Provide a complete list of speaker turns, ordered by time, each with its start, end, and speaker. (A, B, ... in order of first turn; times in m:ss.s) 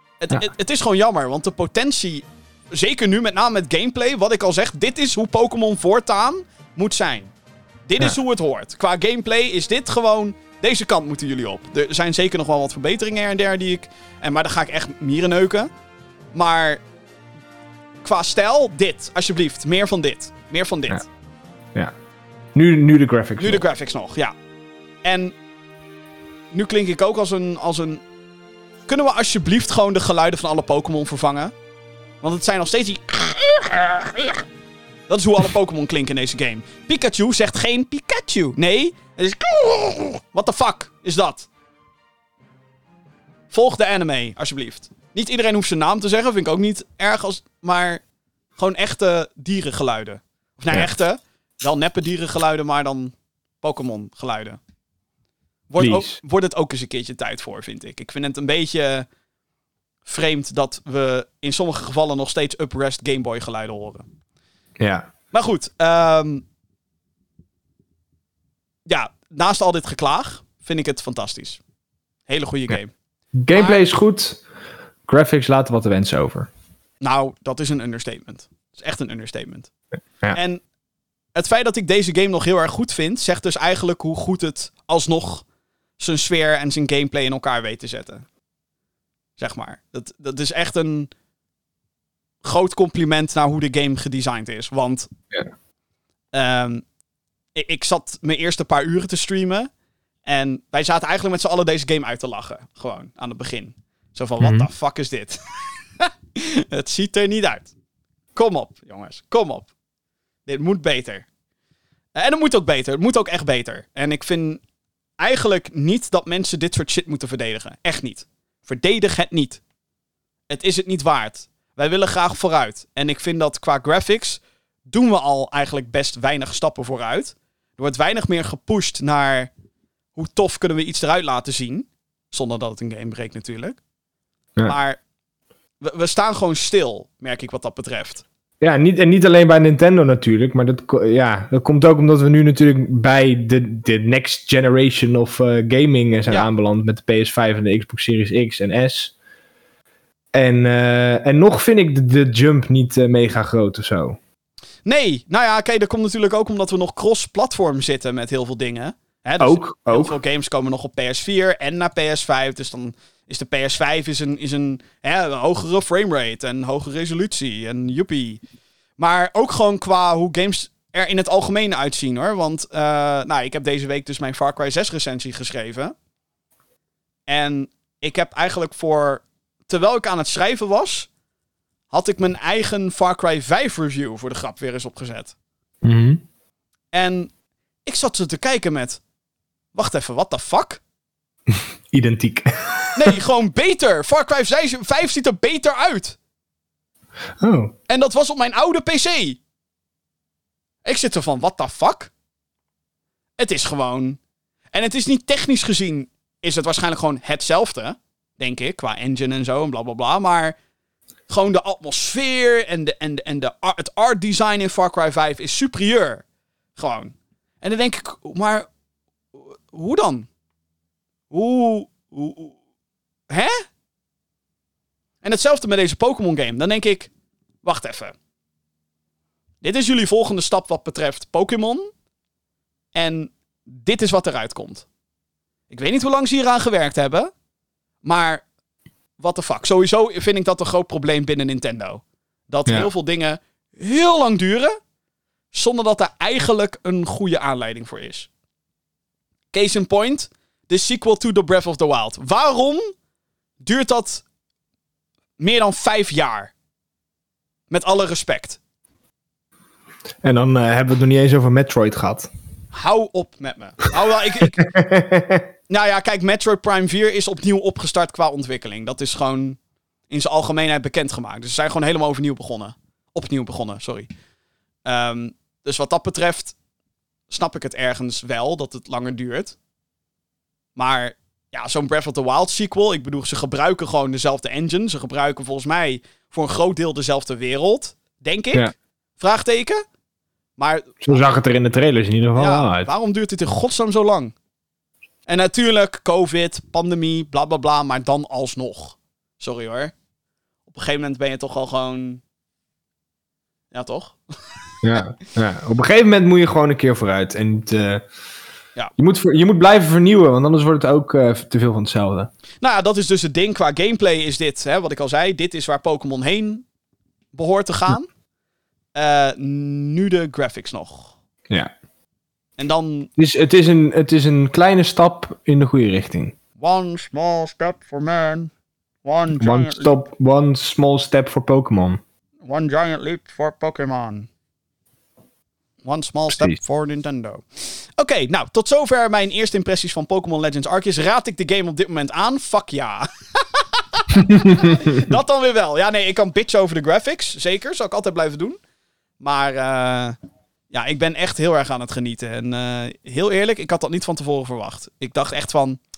0:00.2-0:07.3 A
0:07.9-0:15.7 A
0:16.3-0:16.8 A
0:18.0-0:21.1 A
0:22.6-0:23.6 B
0:23.4-0:24.3 A
0:25.0-0:25.4 A
0:26.5-0:28.0 A
0:28.9-0:31.5 A
0:32.2-0:34.4 A
0:35.1-0:41.5 A
0:43.5-0:48.0 A
0:48.6-0:54.6 A
0:55.7-0:59.1 A
0:55.8-0:56.2 B
1:00.1-1:04.0 A
1:04.8-1:05.1 B
1:05.3-1:06.4 A
1:08.9-1:11.6 A
1:12.3-1:12.9 A
1:13.4-1:14.4 B
1:13.5-1:13.8 A
1:15.1-1:16.5 B
1:17.0-1:19.7 A
1:20.3-1:20.6 A
1:21.4-1:25.4 A
1:26.0-1:28.3 A
1:29.4-1:31.1 A
1:32.4-1:35.1 A
1:36.3-1:36.8 A
1:37.6-1:39.7 A
1:40.3-1:45.4 A
1:44.4-1:44.7 B
1:46.0-1:47.7 A
1:48.4-1:49.7 A
1:50.5-1:51.3 A
1:52.2-1:54.6 A
1:55.2-1:59.6 A
2:00.5-2:09.5 A
2:10.2-2:13.8 A
2:14.7-2:15.0 A
2:15.8-2:18.2 A
2:18.6-2:29.1 B
2:30.3-2:34.2 B
2:34.8-2:48.4 A
2:39.4-2:40.2 B
2:49.0-2:55.9 A
2:57.3-3:01.1 A
3:01.9-3:05.3 A
3:05.8-3:06.2 B
3:06.9-3:07.3 A
3:07.9-3:09.0 A
3:09.8-3:10.8 A
3:11.5-3:13.2 B
3:13.0-3:16.2 A
3:17.4-3:17.7 B
3:17.9-3:19.4 A
3:20.8-3:22.1 A
3:23.4-3:24.2 A
3:24.7-3:30.6 A
3:31.3-3:36.2 A
3:36.8-3:38.7 A
3:39.7-3:40.3 A
3:41.3-3:42.6 A
3:43.3-3:43.6 A
3:45.2-3:47.1 A
3:47.6-3:48.1 A
3:49.6-3:51.9 A
3:52.9-3:54.9 A
3:55.7-3:57.3 A
3:58.0-3:58.4 A
3:59.2-4:04.8 A
4:05.5-4:08.3 A
4:09.5-4:12.9 A
4:13.6-4:14.2 A
4:15.4-4:16.5 A
4:17.7-4:18.6 A
4:20.2-4:22.3 B
4:22.7-4:24.7 A
4:24.4-4:25.5 B
4:25.7-4:34.1 A
4:34.9-4:36.6 A
4:37.3-4:39.6 A
4:40.8-4:49.8 A
4:50.6-4:51.4 A
4:51.1-4:52.9 B
4:52.4-4:54.3 A
4:55.3-4:59.9 A
5:00.7-5:02.2 A
5:03.7-5:04.2 A
5:04.8-5:08.0 B
5:09.0-5:12.3 B
5:12.6-5:16.6 A
5:17.3-5:18.1 A
5:19.0-5:21.2 A
5:22.6-5:23.1 A
5:23.2-5:26.4 B
5:26.6-5:28.5 A
5:29.0-5:30.0 A
5:29.4-5:32.0 B
5:32.4-5:34.3 A
5:35.8-5:48.6 A
5:49.2-5:50.2 A
5:50.7-5:55.8 A